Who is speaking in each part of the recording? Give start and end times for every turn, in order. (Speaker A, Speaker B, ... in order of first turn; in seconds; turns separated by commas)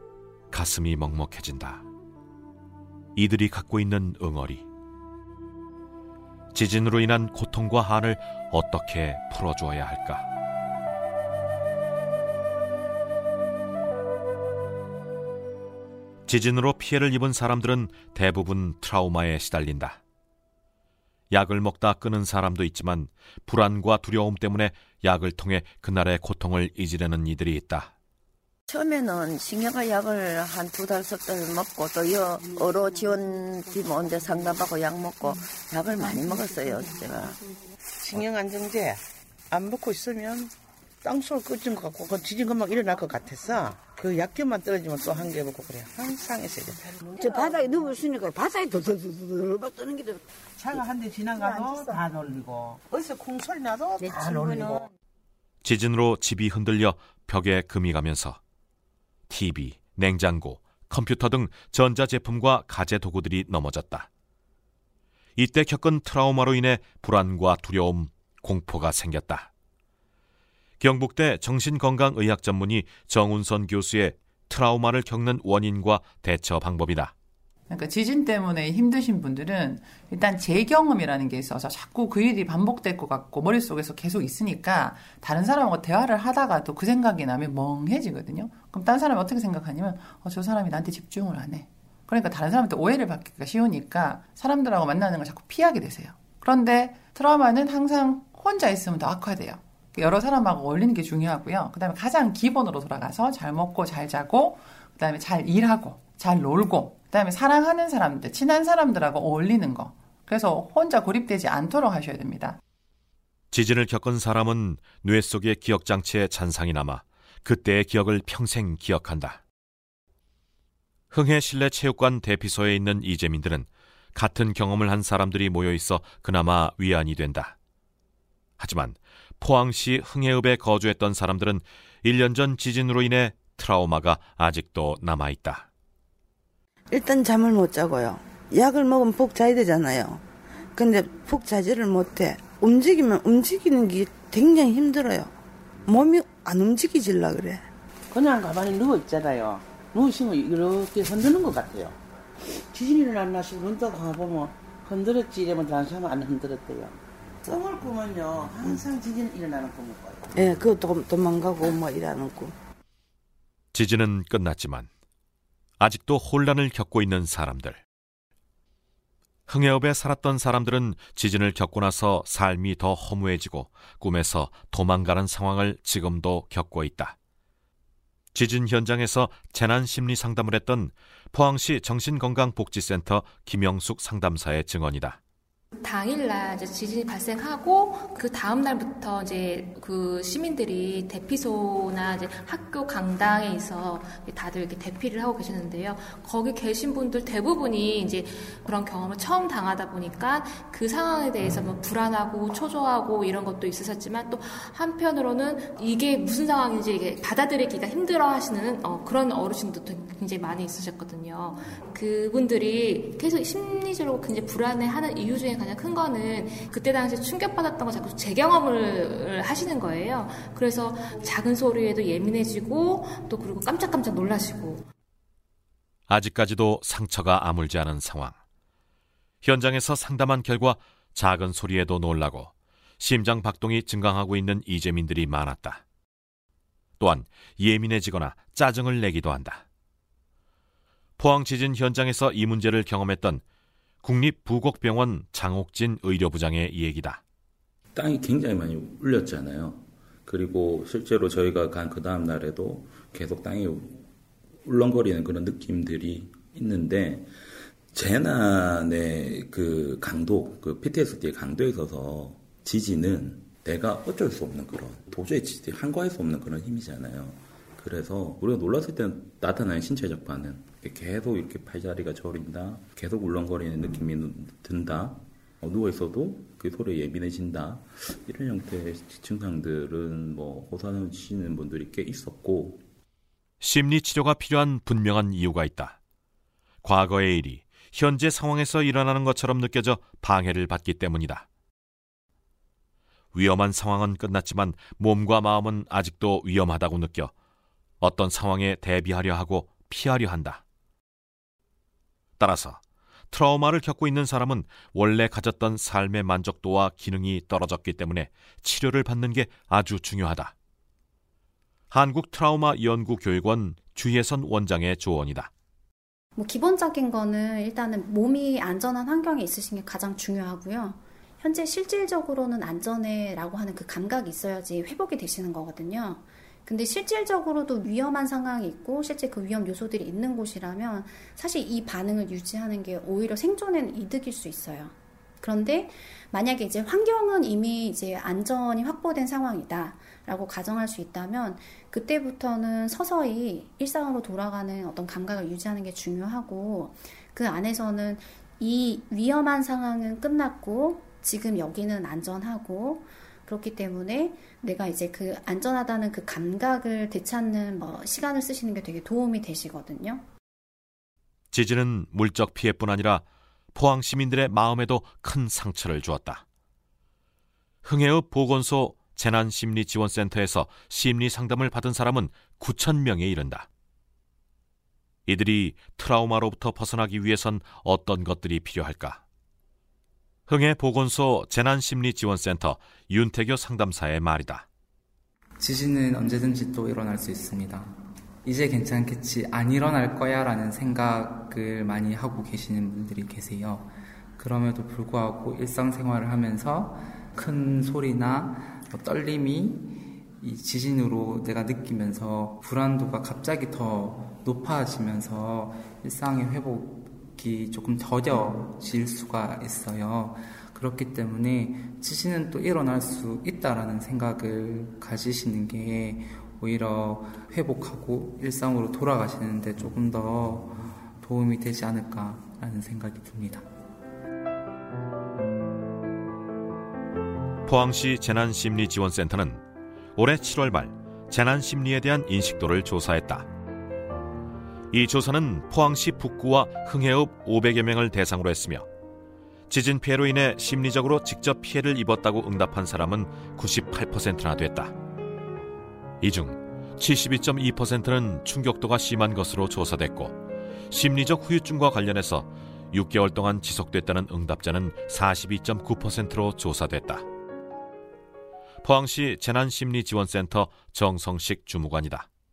Speaker A: 0.5-1.8, Speaker A: 3.1-4.7, Speaker A: 6.5-10.2, Speaker A: 16.3-20.0, Speaker A: 21.3-27.9, Speaker B: 28.7-37.4, Speaker C: 38.0-39.0, Speaker C: 39.5-40.5, Speaker C: 41.0-47.5, Speaker D: 47.2-50.2, Speaker C: 50.6-54.9, Speaker D: 51.4-51.8, Speaker D: 54.0-54.8, Speaker A: 55.6-58.4, Speaker A: 59.3-64.1, Speaker A: 65.4-69.5, Speaker A: 70.8-77.1, Speaker E: 77.7-112.6, Speaker A: 113.5-119.4, Speaker A: 121.1-127.5, Speaker A: 128.6-135.7, Speaker F: 136.9-140.2, Speaker F: 140.8-145.3, Speaker F: 145.8-147.6, Speaker C: 148.1-152.0, Speaker C: 152.7-160.3, Speaker F: 160.3-162.5, Speaker A: 163.7-164.9, Speaker A: 165.8-167.8, Speaker A: 169.5-177.2, Speaker A: 178.3-185.2, Speaker G: 185.8-224.8, Speaker A: 226.1-228.4, Speaker A: 229.4-235.8, Speaker A: 237.0-239.6, Speaker A: 241.2-243.4, Speaker A: 244.0-247.2, Speaker H: 247.9-254.0, Speaker H: 254.7-257.3, Speaker H: 257.9-282.8, Speaker A: 283.6-286.0, Speaker A: 286.8-291.5, Speaker A: 293.3-297.3, Speaker A: 298.0-300.6, Speaker A: 302.4-310.5, Speaker A: 311.9-315.5, Speaker I: 316.4-360.2, Speaker A: 361.5-366.4, Speaker A: 367.8-373.7, Speaker A: 375.3-379.2, Speaker A: 380.5-384.7, Speaker J: 385.6-423.7, Speaker A: 427.7-429.6, Speaker A: 430.2-433.5, Speaker A: 434.9-438.9, Speaker A: 439.7-444.9, Speaker A: 446.2-450.4, Speaker A: 450.9-457.2, Speaker A: 458.8-462.3